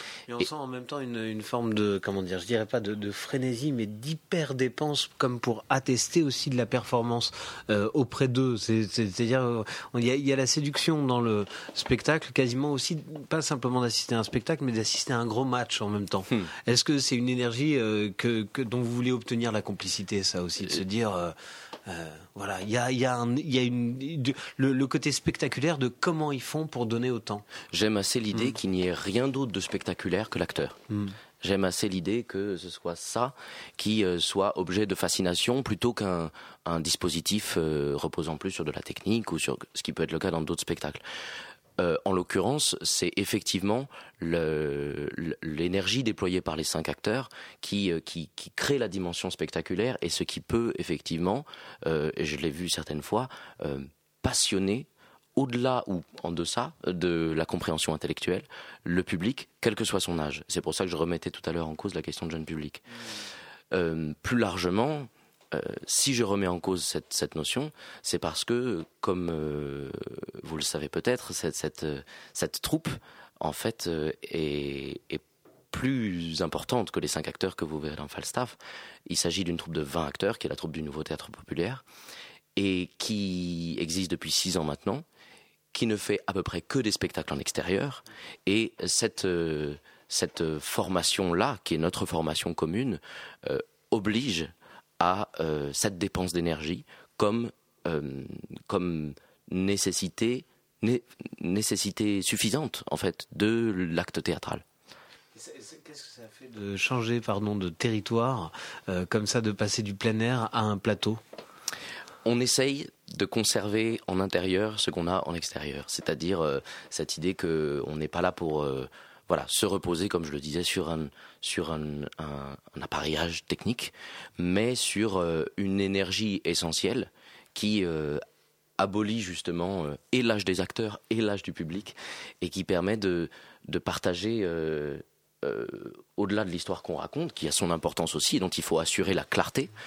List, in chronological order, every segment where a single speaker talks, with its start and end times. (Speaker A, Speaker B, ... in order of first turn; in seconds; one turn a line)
Speaker A: 0.3-21.4
Speaker A: 21.9-27.5
Speaker B: 27.7-30.8
Speaker A: 30.9-31.2
Speaker B: 31.4-41.0
Speaker B: 41.8-62.8
Speaker B: 63.7-81.8
Speaker B: 82.6-85.0
Speaker B: 85.7-104.6
Speaker A: 105.3-111.2
Speaker B: 112.2-128.2
Speaker B: 128.8-139.7